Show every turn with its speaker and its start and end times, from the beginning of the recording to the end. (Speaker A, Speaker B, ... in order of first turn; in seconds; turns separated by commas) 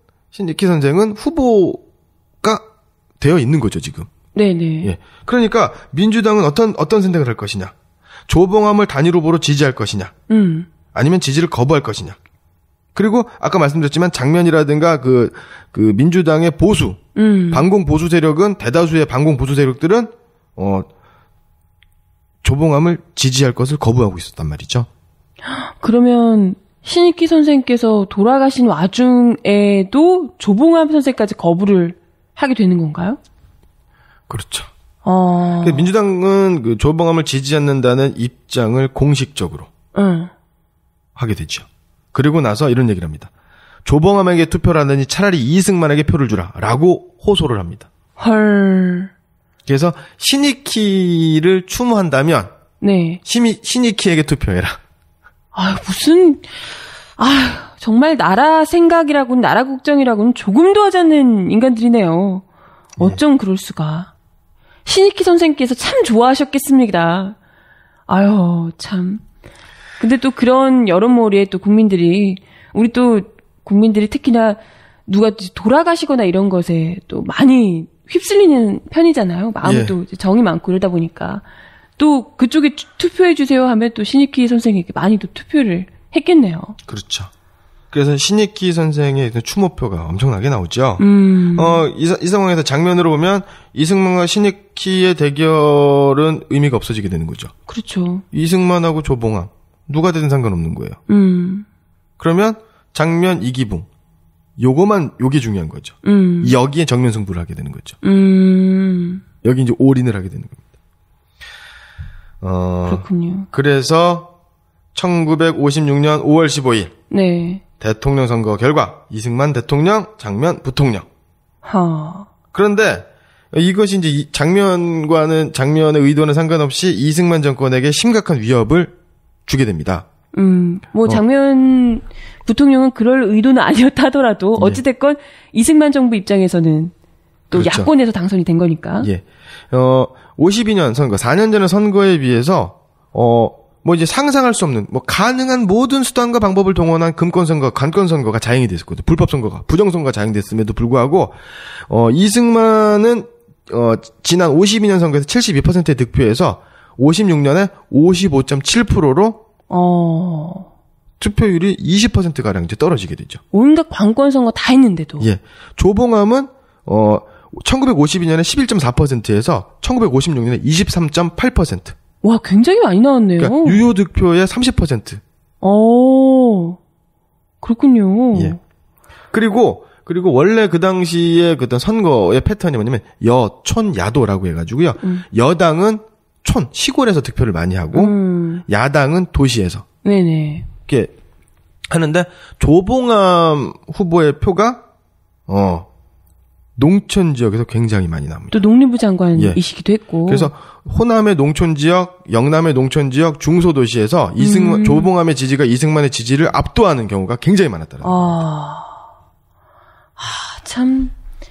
Speaker A: 0.3-1.8, Speaker A: 3.2-4.1, Speaker B: 4.3-4.9, Speaker A: 4.8-7.7, Speaker A: 8.3-10.1, Speaker B: 10.3-10.7, Speaker A: 10.9-12.2, Speaker A: 12.9-17.0, Speaker B: 17.1-17.7, Speaker A: 17.5-20.9, Speaker A: 22.4-24.9, Speaker B: 25.4-33.2, Speaker A: 34.3-34.7, Speaker B: 35.0-35.9, Speaker A: 35.6-39.7, Speaker B: 39.9-40.3, Speaker A: 41.1-43.3, Speaker A: 43.8-47.9, Speaker B: 48.2-49.1, Speaker A: 49.6-52.5, Speaker B: 52.8-53.2, Speaker A: 53.2-54.8, Speaker B: 55.5-56.6, Speaker B: 57.2-62.4, Speaker B: 63.0-64.1, Speaker B: 64.8-67.4, Speaker B: 68.1-69.2, Speaker B: 70.0-81.4, Speaker A: 79.6-79.9, Speaker B: 82.0-86.8, Speaker A: 86.8-87.3, Speaker A: 87.9-97.5, Speaker B: 91.0-91.8, Speaker B: 97.7-98.2, Speaker A: 98.3-101.0, Speaker B: 101.1-101.7, Speaker A: 102.2-103.9, Speaker A: 104.6-108.0, Speaker B: 106.0-106.5, Speaker B: 108.0-109.2, Speaker A: 109.4-110.6, Speaker A: 112.4-114.3, Speaker B: 112.8-113.5, Speaker A: 114.9-116.9, Speaker B: 117.1-117.6, Speaker A: 117.8-121.0, Speaker B: 121.6-122.3, Speaker A: 122.5-128.9, Speaker A: 129.5-130.1, Speaker B: 130.3-136.9, Speaker B: 137.5-139.1, Speaker A: 137.5-137.9, Speaker A: 139.0-159.4, Speaker B: 159.7-160.7, Speaker A: 161.2-163.4, Speaker B: 163.5-165.3, Speaker A: 165.2-171.9, Speaker B: 172.2-173.8, Speaker A: 173.4-175.2, Speaker B: 175.6-176.8, Speaker B: 177.6-178.6, Speaker A: 179.3-188.1, Speaker B: 187.9-188.6, Speaker A: 188.7-189.8, Speaker B: 190.0-190.7, Speaker A: 190.8-191.1, Speaker A: 191.9-194.8, Speaker A: 195.5-195.9, Speaker A: 196.8-198.6, Speaker B: 198.5-200.5, Speaker A: 200.3-208.2, Speaker B: 204.4-205.1, Speaker B: 208.0-209.0, Speaker B: 210.2-211.1